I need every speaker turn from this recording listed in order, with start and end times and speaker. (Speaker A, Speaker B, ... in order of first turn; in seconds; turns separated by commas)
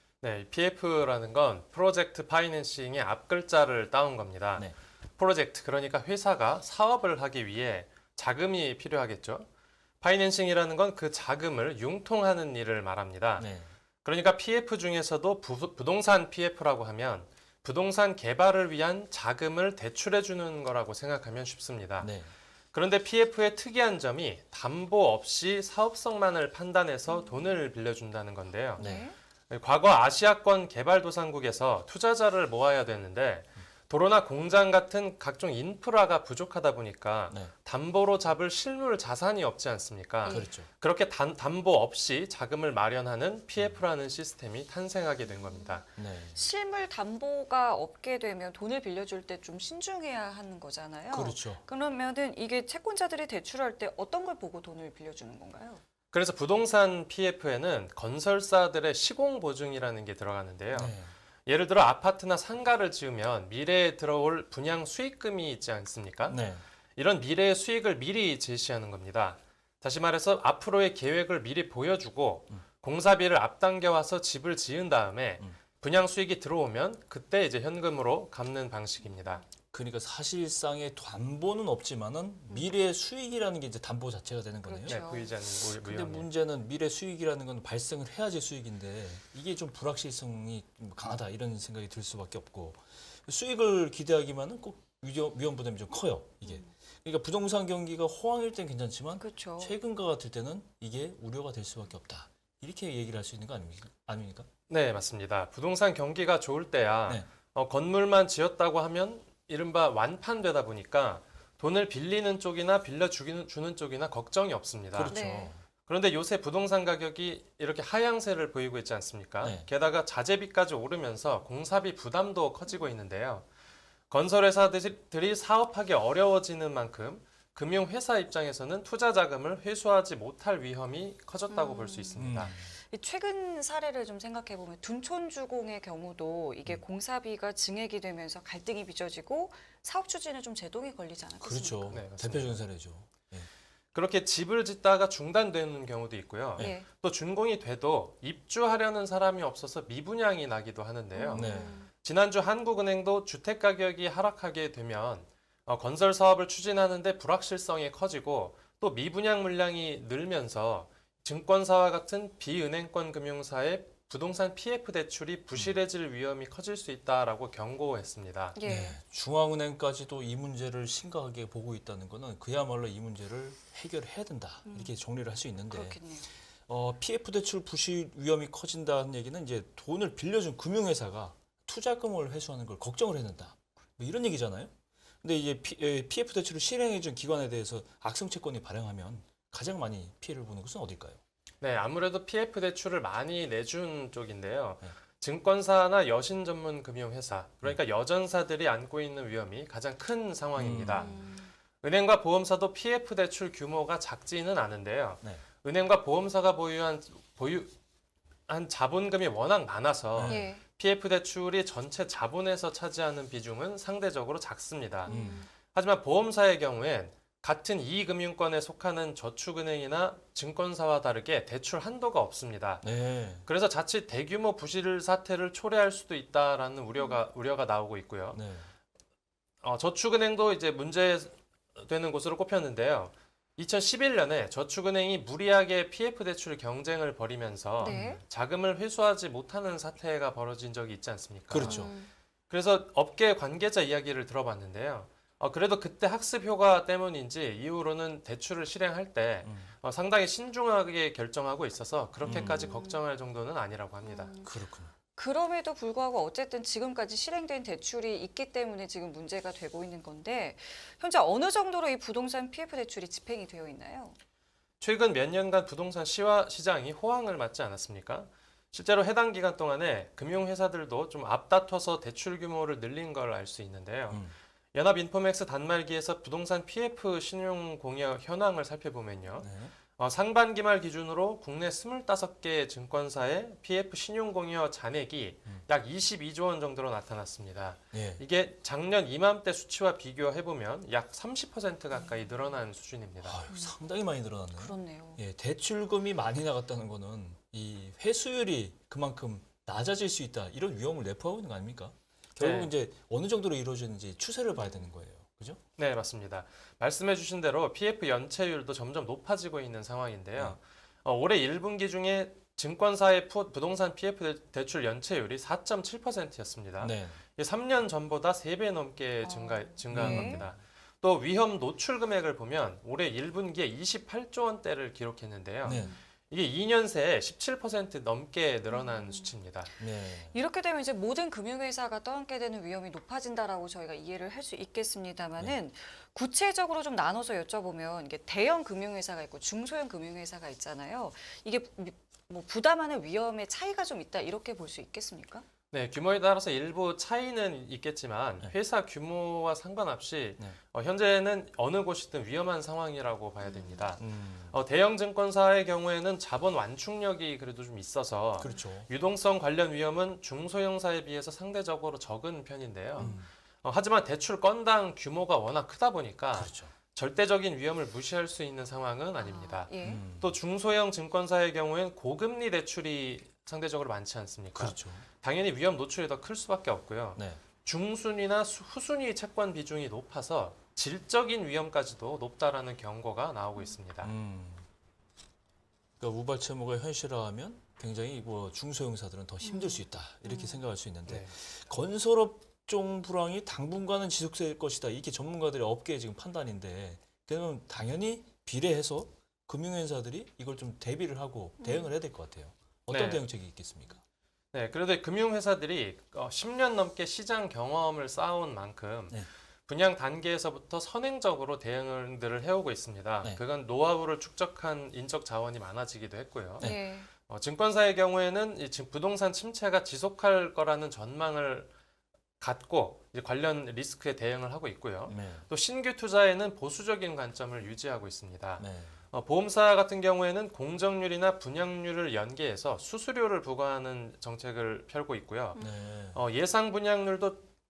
Speaker A: 0.2-9.5, Speaker A: 10.0-13.5, Speaker B: 13.4-13.7, Speaker A: 14.0-22.1, Speaker B: 22.0-22.3, Speaker A: 22.7-28.8, Speaker C: 27.1-27.5, Speaker C: 28.8-29.1, Speaker B: 28.8-29.1, Speaker A: 29.5-45.9, Speaker C: 40.2-40.5, Speaker B: 40.3-40.7, Speaker C: 45.3-45.8, Speaker B: 46.0-46.4, Speaker C: 46.3-55.8, Speaker B: 51.1-51.6, Speaker A: 56.1-60.9, Speaker B: 60.7-61.1, Speaker A: 61.5-66.4, Speaker B: 66.3-66.6, Speaker A: 67.0-79.4, Speaker B: 79.7-85.0, Speaker C: 84.6-85.3, Speaker A: 84.9-86.3, Speaker B: 85.7-104.5, Speaker C: 96.4-96.7, Speaker C: 99.2-99.7, Speaker A: 104.7-115.2, Speaker B: 114.9-115.6, Speaker C: 115.0-115.5, Speaker A: 115.9-123.5, Speaker B: 119.4-119.7, Speaker A: 124.1-132.5, Speaker C: 131.5-132.2, Speaker B: 132.2-132.7, Speaker C: 132.9-142.0, Speaker B: 141.4-143.5, Speaker A: 141.9-142.6, Speaker A: 143.9-168.6, Speaker C: 146.6-146.9, Speaker C: 151.1-151.9, Speaker B: 151.3-151.8, Speaker C: 168.5-169.0, Speaker B: 168.6-176.0, Speaker C: 174.6-174.9, Speaker C: 175.7-176.3, Speaker B: 176.6-191.2, Speaker A: 191.6-201.1, Speaker B: 200.6-201.1, Speaker C: 200.9-201.5, Speaker A: 201.8-207.7, Speaker A: 208.5-222.9, Speaker B: 210.1-210.5, Speaker C: 210.2-210.6, Speaker C: 215.1-215.5, Speaker B: 215.1-215.4, Speaker B: 222.8-223.4, Speaker A: 223.4-228.4, Speaker C: 226.9-227.2, Speaker B: 228.3-228.7, Speaker A: 229.6-241.9, Speaker C: 237.8-238.2, Speaker B: 237.9-238.2, Speaker B: 241.5-241.9, Speaker C: 241.6-242.1, Speaker A: 242.5-254.3, Speaker B: 249.4-249.7, Speaker B: 252.2-252.8, Speaker C: 252.3-253.0, Speaker C: 254.0-254.6, Speaker B: 254.4-254.9, Speaker C: 255.1-264.2, Speaker A: 264.8-274.2, Speaker A: 274.7-293.4, Speaker B: 279.4-279.7, Speaker B: 287.9-288.2, Speaker B: 293.2-305.6, Speaker C: 293.5-293.7, Speaker C: 294.5-295.2, Speaker A: 302.4-302.7, Speaker C: 304.6-304.9, Speaker A: 305.8-329.7, Speaker B: 316.8-317.2, Speaker C: 319.2-320.5, Speaker B: 319.9-320.5, Speaker B: 325.6-325.9, Speaker C: 325.7-326.0, Speaker C: 328.7-329.3, Speaker B: 329.8-330.3, Speaker C: 330.3-345.4, Speaker A: 345.7-384.1, Speaker C: 353.4-353.9, Speaker B: 354.0-354.6, Speaker B: 358.4-358.9, Speaker B: 363.0-363.3, Speaker B: 366.3-366.7, Speaker C: 369.1-370.0, Speaker B: 369.8-370.4, Speaker B: 374.5-375.1, Speaker B: 377.1-377.4, Speaker B: 384.0-384.6, Speaker B: 386.0-404.0, Speaker C: 389.4-390.6, Speaker A: 391.1-391.3, Speaker C: 401.6-401.9, Speaker A: 402.9-403.2, Speaker A: 404.5-421.7, Speaker C: 416.6-417.1, Speaker A: 422.4-435.6, Speaker B: 425.1-425.4, Speaker B: 428.6-429.0, Speaker B: 435.6-436.2, Speaker A: 436.1-437.5